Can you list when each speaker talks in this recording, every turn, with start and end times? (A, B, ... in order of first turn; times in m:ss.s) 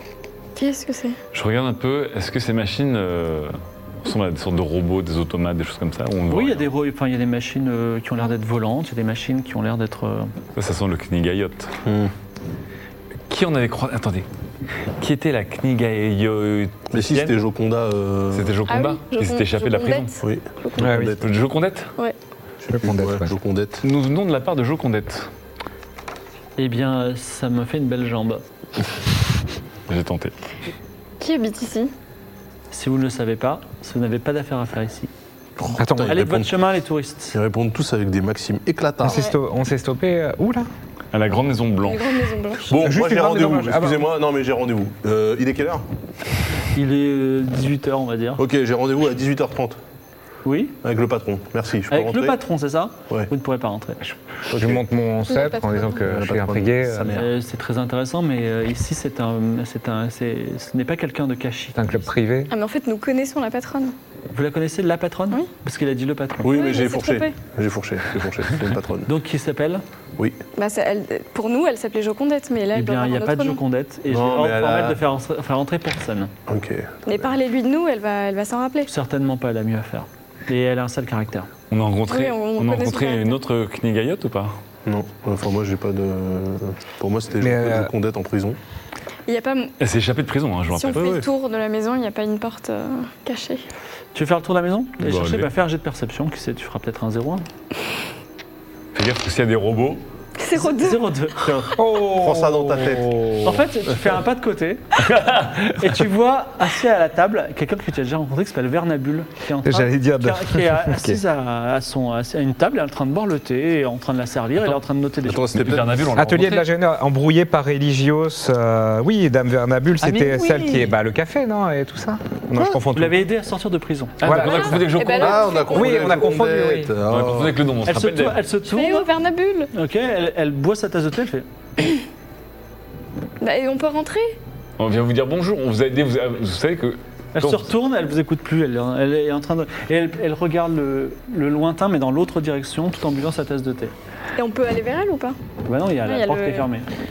0:00.6-0:01.2 A
0:01.3-0:06.7 B
0:06.3-0:10.3 C
0:10.6-0:11.7 B
0:11.8-0:12.1 D
0:13.3-0:14.3 B
0:15.0-0:16.8 B
0:16.9-0:18.6 D
0:16.9-0:17.4 C
0:18.3-0:20.2 B
0:18.7-0:21.0 A
0:20.2-0:21.2 D
0:20.8-0:21.2 E
0:21.2-0:21.9 B
0:22.6-0:23.4 E
0:22.8-0:23.8 D
0:23.8-0:25.3 B
0:26.6-0:28.4 C
0:29.9-0:30.3 B
0:31.2-0:31.9 A
0:32.7-0:35.1 C
0:35.6-0:36.6 D
0:35.8-0:36.2 E
0:36.1-0:37.3 C
0:37.3-0:39.2 D
0:39.0-0:40.7 E
0:41.1-0:42.2 B
0:41.8-0:42.7 A
0:42.7-0:45.8 D
0:42.7-0:44.1 E
0:46.7-0:48.4 C
0:48.4-0:49.8 D
0:50.4-0:50.8 C
0:50.8-0:52.4 D
0:51.9-0:54.0 C
0:54.0-0:57.1 E
0:54.5-0:54.8 D
0:55.3-0:56.0 A
0:55.9-0:57.3 D
0:57.1-1:02.0 C
1:01.7-1:02.5 E
1:02.5-1:03.9 A
1:04.3-1:06.5 C
1:06.4-1:09.1 D
1:06.5-1:07.3 A
1:09.0-1:09.8 C
1:10.6-1:13.6 A
1:12.7-1:16.3 C
1:14.1-1:15.0 D
1:16.5-1:17.3 D
1:17.0-1:18.9 A
1:18.9-1:21.5 C
1:21.7-1:24.6 B
1:22.1-1:23.4 A
1:24.8-1:28.6 D
1:27.4-1:27.9 E
1:29.3-1:29.7 A
1:29.8-1:31.3 B
1:30.7-1:33.6 A
1:34.1-1:37.4 C
1:35.0-1:35.5 B
1:38.9-1:40.0 B
1:40.4-1:41.1 A
1:40.5-1:41.4 C
1:41.4-1:43.6 D
1:41.7-1:43.6 E
1:43.4-1:45.0 C
1:45.0-1:45.9 B
1:45.6-1:55.5 C
1:49.6-1:51.2 E
1:55.2-1:56.0 D
1:55.5-1:56.7 B
1:56.1-2:03.2 E
2:00.0-2:00.9 C
2:02.9-2:04.2 C
2:04.2-2:05.7 B
2:04.2-2:05.0 E
2:04.3-2:06.1 A
2:05.1-2:07.6 D
2:05.7-2:07.0 E
2:07.0-2:08.4 B
2:07.8-2:09.1 C
2:08.6-2:09.7 A
2:09.7-2:11.4 C
2:13.4-2:14.4 A
2:14.8-2:17.7 B
2:17.3-2:23.9 C
2:24.4-2:25.4 A
2:25.6-2:26.9 C
2:26.0-2:26.7 A